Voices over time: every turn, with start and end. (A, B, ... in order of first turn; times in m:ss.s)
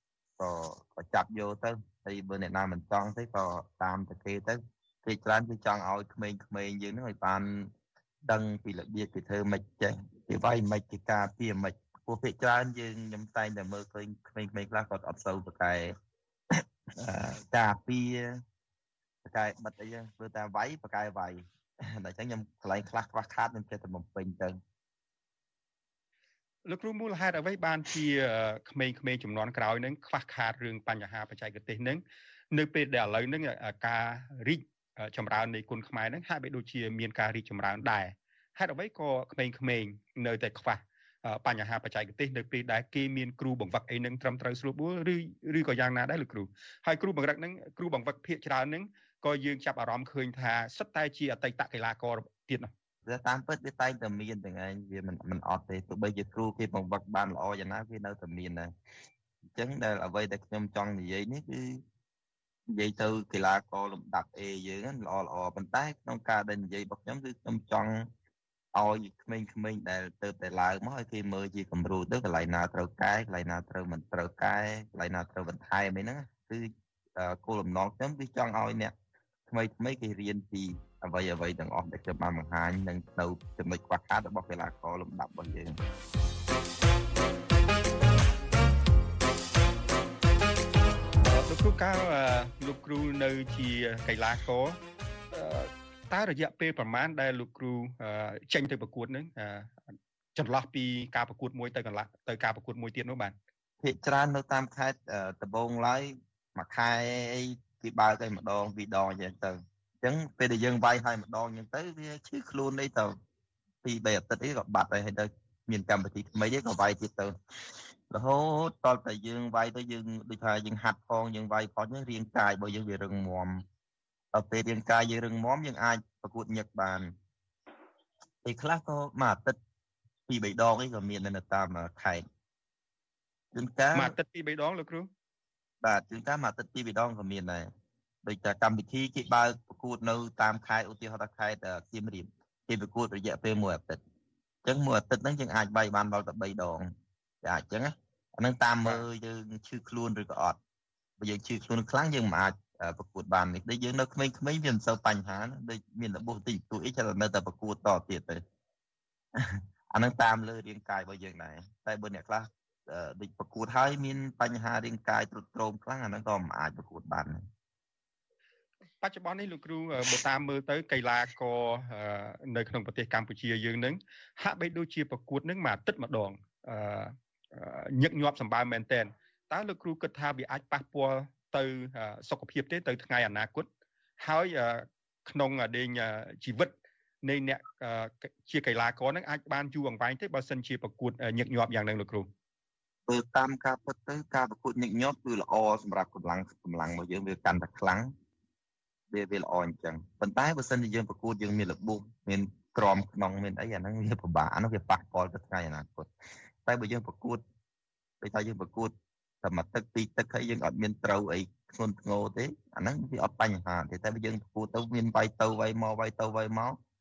0:00.4-0:07.7 A
0:08.2-0:16.0 A
0:16.6-0:18.4 A
0:19.2-0:24.6 A
0:26.7-0:52.7 B
0:53.1-0:58.7 A
0:59.6-1:01.8 A
1:02.7-1:08.1 A
1:08.7-1:18.9 A
1:19.5-1:25.8 A
1:31.2-1:34.8 B
1:35.3-1:39.7 B
1:40.4-1:43.4 B
1:43.8-1:53.2 A
1:53.8-1:57.4 A
1:58.1-2:03.6 A
2:04.3-2:07.1 A
2:08.4-2:09.6 A
2:10.3-2:12.2 A
2:13.5-2:14.2 A
2:14.0-2:15.1 B
2:15.8-2:17.7 A
2:18.2-2:24.0 A
2:24.6-2:26.9 A
2:27.4-2:30.6 A
2:31.2-2:38.4 A
2:39.4-2:47.4 A
2:49.0-3:03.7 B
3:04.2-3:12.3 B
3:13.1-3:18.1 A
3:19.1-3:26.1 A
3:26.6-3:27.4 A
3:28.2-3:36.8 A